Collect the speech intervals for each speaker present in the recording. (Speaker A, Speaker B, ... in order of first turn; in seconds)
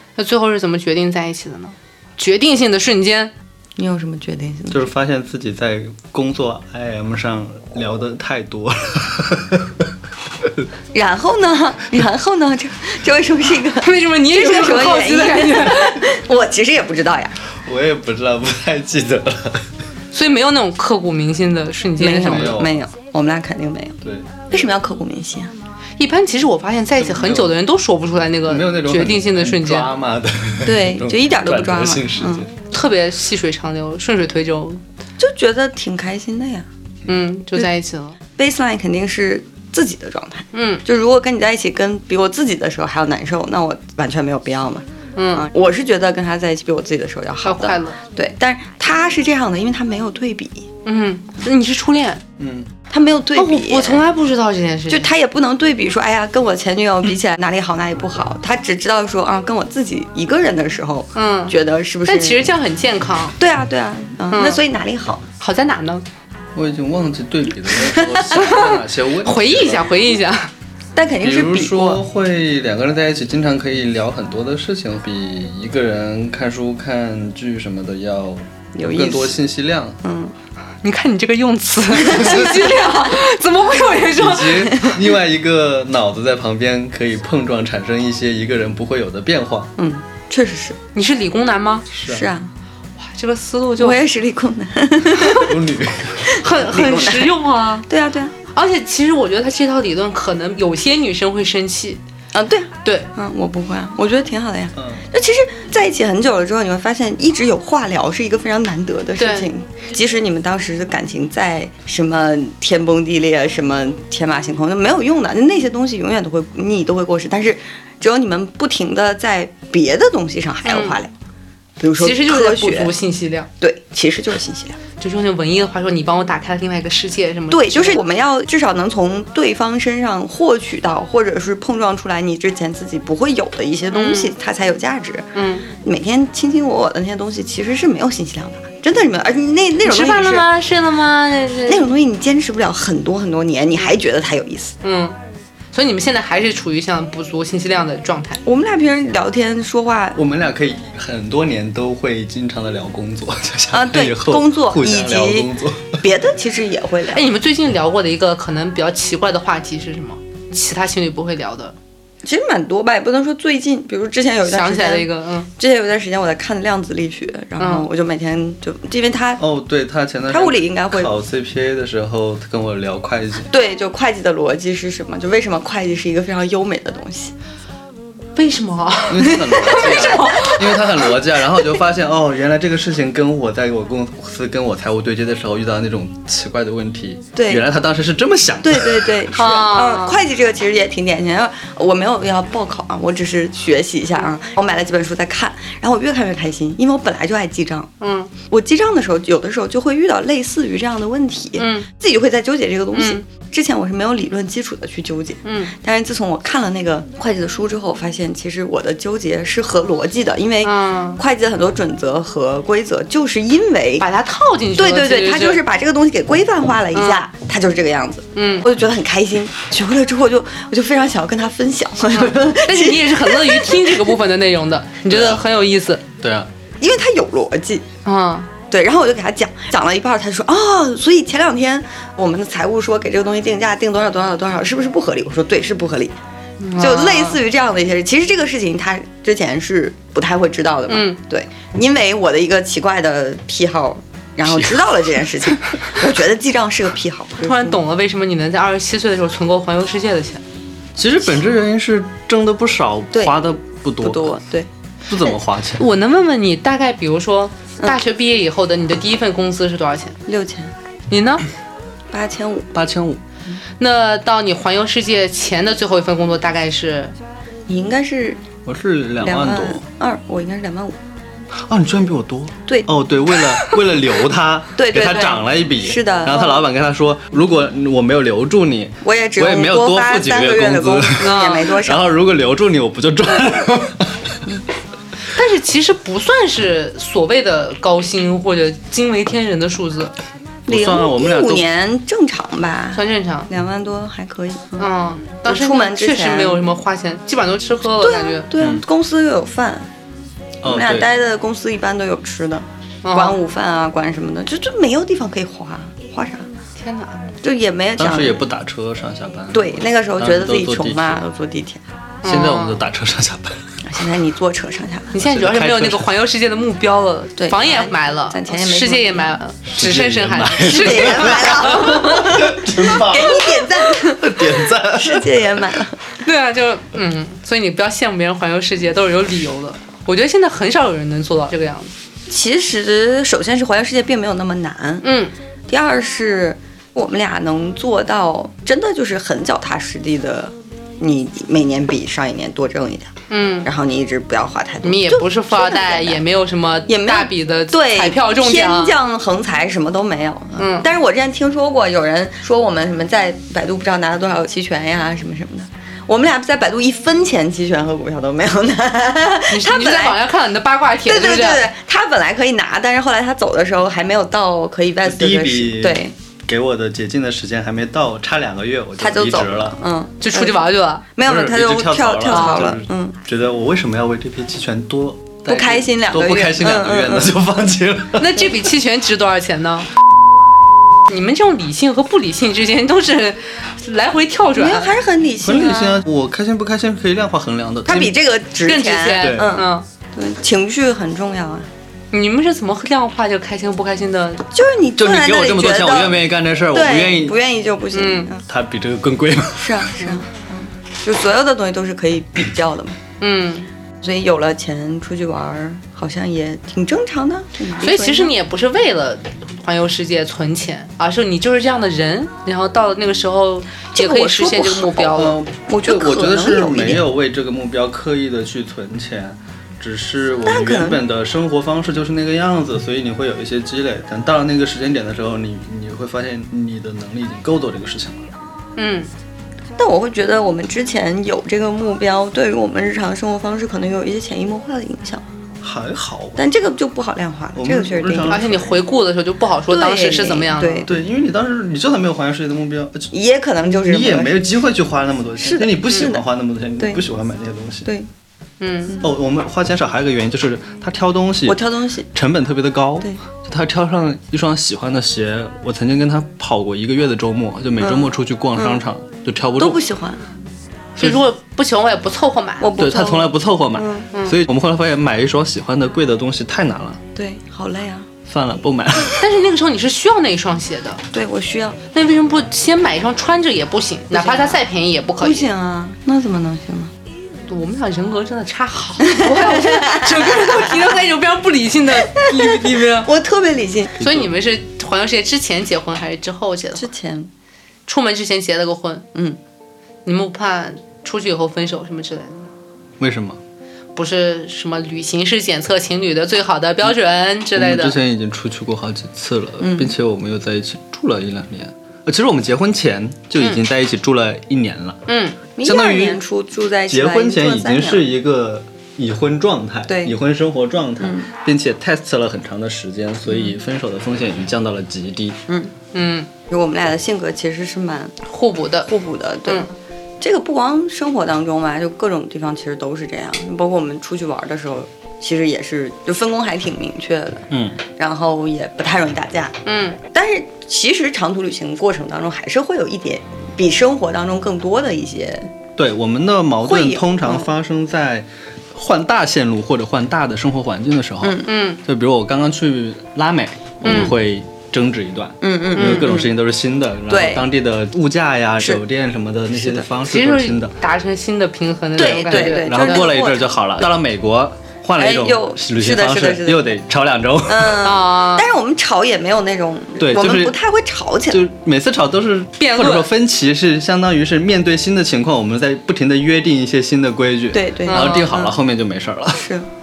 Speaker A: 0.2-3.3, 13.8-16.0, 20.1-22.6, 26.0-29.9, 32.7-34.8, 37.1-38.2, 40.5-40.8, 45.2-45.5, 47.4-48.0, 50.9-52.2, 53.4-55.1, 61.1-61.5, 62.1-63.4, 64.3-64.6, 65.4-66.0, 68.3-70.5, 80.8-84.6, 90.9-91.9, 93.0-94.0, 95.2-95.5, 96.2-97.9, 98.5-102.0, 109.2-109.5, 120.7-121.0, 122.0-123.5, 125.0-128.0, 133.9-134.3, 135.3-135.7, 139.8-141.9, 144.8-145.2, 145.7-148.4, 157.1-161.8, 164.4-165.5, 167.6-167.9, 178.4-181.0, 189.3-190.2, 198.0-198.3, 201.6-201.9, 202.9-203.2, 205.4-205.7, 210.6-211.2, 214.0-215.6, 216.9-217.2, 218.3-218.7, 222.2-226.0, 228.1-228.5, 236.6-237.4, 240.9-241.2, 247.4-250.4, 255.8-260.2, 261.1-261.4, 263.8-267.1, 281.2-281.7, 285.3-290.1, 292.9-293.5, 294.8-298.5, 303.0-303.4, 306.8-307.3, 312.2-312.8, 315.1-322.1, 326.2-331.9, 335.0-335.3, 343.3-343.7, 344.8-348.9, 350.6-350.9, 359.5-361.7, 370.2-371.1, 372.3-372.8, 378.2-379.9, 381.1-384.9, 388.6-389.9, 392.1-394.4, 397.9-398.3, 403.2-403.7, 407.8-415.4, 428.8-429.1, 438.3-440.9, 448.6-449.0, 461.0-462.7, 469.2-471.0, 471.9-475.5, 477.5-483.1, 484.0-486.9, 487.9-489.1, 490.1-492.4, 493.9-498.0, 505.1-505.4, 515.9-516.3, 518.3-518.9, 529.6-530.0, 541.4-541.8, 543.8-544.1, 545.8-546.1, 550.0-553.1, 557.8-558.5, 562.6-563.1, 567.9-568.3
Speaker B: 3.8-4.9, 10.9-17.4, 22.0-24.0, 24.5-25.5, 30.6-32.5, 35.2-36.7, 38.4-50.7, 52.9-54.0, 54.9-62.5, 63.4-65.2, 67.9-68.3, 70.9-72.0, 78.8-79.4, 80.0-80.3, 89.8-90.8, 92.0-92.5, 93.8-95.6, 96.3-98.3, 102.3-121.1, 121.8-122.9, 123.6-124.8, 127.5-140.5, 141.7-144.8, 148.4-150.2, 153.7-157.2, 162.2-169.4, 170.3-171.1, 173.4-177.3, 179.7-180.2, 187.4-187.7, 188.6-197.9, 198.4-214.1, 214.8-224.1, 226.8-227.9, 228.7-236.2, 236.8-247.8, 253.1-253.4, 254.0-254.7, 260.2-260.8, 262.1-262.7, 267.7-268.4, 269.2-271.0, 274.8-276.6, 279.0-282.1, 290.7-294.8, 295.4-296.7, 298.0-299.9, 300.6-306.5, 307.4-308.4, 309.5-311.8, 313.8-315.1, 317.4-319.4, 320.7-326.0, 332.3-335.1, 335.7-343.1, 343.6-346.2, 346.9-360.2, 361.0-366.1, 369.0-373.2, 375.4-377.3, 384.6-386.1, 387.9-391.7, 394.5-398.4, 399.6-403.0, 404.0-408.3, 413.9-417.0, 420.4-421.0, 429.8-435.2, 436.4-438.4, 439.7-440.9, 443.1-444.5, 445.4-446.2, 451.4-452.1, 457.8-458.8, 459.6-460.2, 462.6-464.1, 467.2-468.1, 471.1-471.8, 474.1-474.6, 475.2-476.9, 479.1-480.8, 482.1-483.9, 486.8-487.3, 489.1-489.4, 499.6-499.9, 505.6-508.1, 509.9-510.2, 511.0-511.3, 515.5-515.7, 516.5-518.1, 518.8-519.7, 520.2-529.6, 530.1-535.5, 536.6-537.5, 541.2-541.5, 545.4-546.3, 547.1-547.5, 549.6-549.9, 552.0-553.6, 555.0-556.7, 557.5-561.4, 567.5-568.6, 569.4-569.7
Speaker C: 4.7-9.8, 17.6-19.7, 22.2-22.8, 24.0-24.5, 27.0-27.5, 28.5-32.5, 52.4-52.7, 66.5-69.9, 71.2-80.0, 82.0-82.9, 84.1-89.7, 91.9-92.2, 95.3-96.3, 104.8-105.0, 150.2-156.0, 169.4-173.5, 179.1-189.2, 225.1-225.4, 226.2-226.5, 244.5-245.1, 251.0-254.4, 255.1-255.8, 262.7-263.2, 268.7-269.8, 271.7-284.4, 290.7-291.7, 300.6-301.1, 308.0-311.2, 312.2-313.6, 315.2-316.1, 319.7-325.7, 365.0-369.8, 371.2-378.5, 385.4-388.1, 389.2-389.6, 395.0-397.4, 398.5-399.9, 415.1-428.2, 435.6-436.4, 437.6-438.8, 440.9-443.1, 443.7-447.9, 449.0-459.8, 462.8-467.0, 468.3-469.2, 484.0-484.3, 493.0-493.4, 497.6-505.0, 505.6-506.2, 506.9-515.4, 527.5-527.8, 535.8-550.7, 552.0-557.9, 560.0-560.6, 561.3-569.5